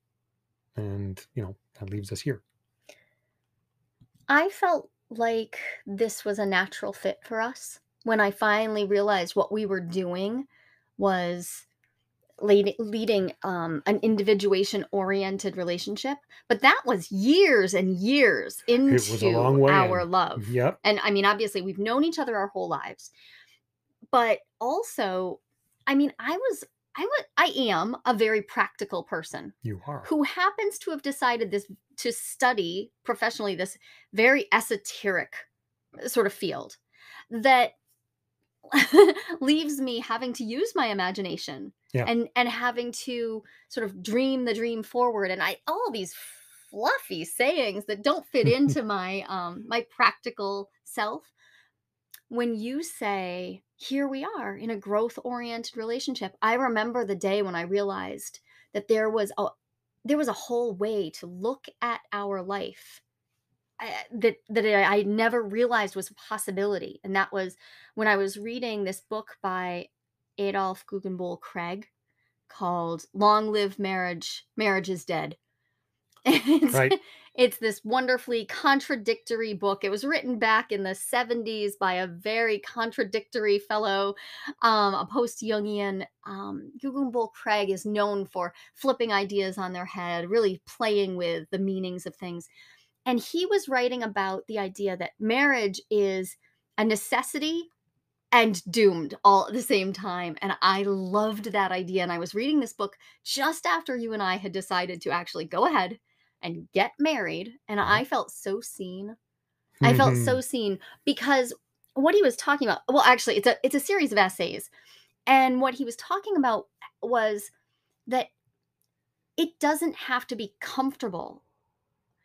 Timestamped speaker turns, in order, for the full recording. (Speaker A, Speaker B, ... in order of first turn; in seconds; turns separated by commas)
Speaker A: 0.8-2.4, Speaker B: 4.3-10.5, Speaker B: 11.0-11.7, Speaker B: 12.4-23.1, Speaker A: 18.9-20.8, Speaker B: 24.1-35.5, Speaker A: 29.6-30.1, Speaker B: 36.0-36.8, Speaker B: 37.3-37.8, Speaker B: 38.7-51.3, Speaker B: 52.3-59.5, Speaker B: 60.0-63.0, Speaker B: 63.8-71.9, Speaker B: 72.5-75.4, Speaker B: 76.3-92.5, Speaker B: 93.1-97.7, Speaker B: 98.3-109.2, Speaker A: 109.8-110.4, Speaker B: 109.8-114.7, Speaker B: 115.3-117.5, Speaker B: 119.4-121.4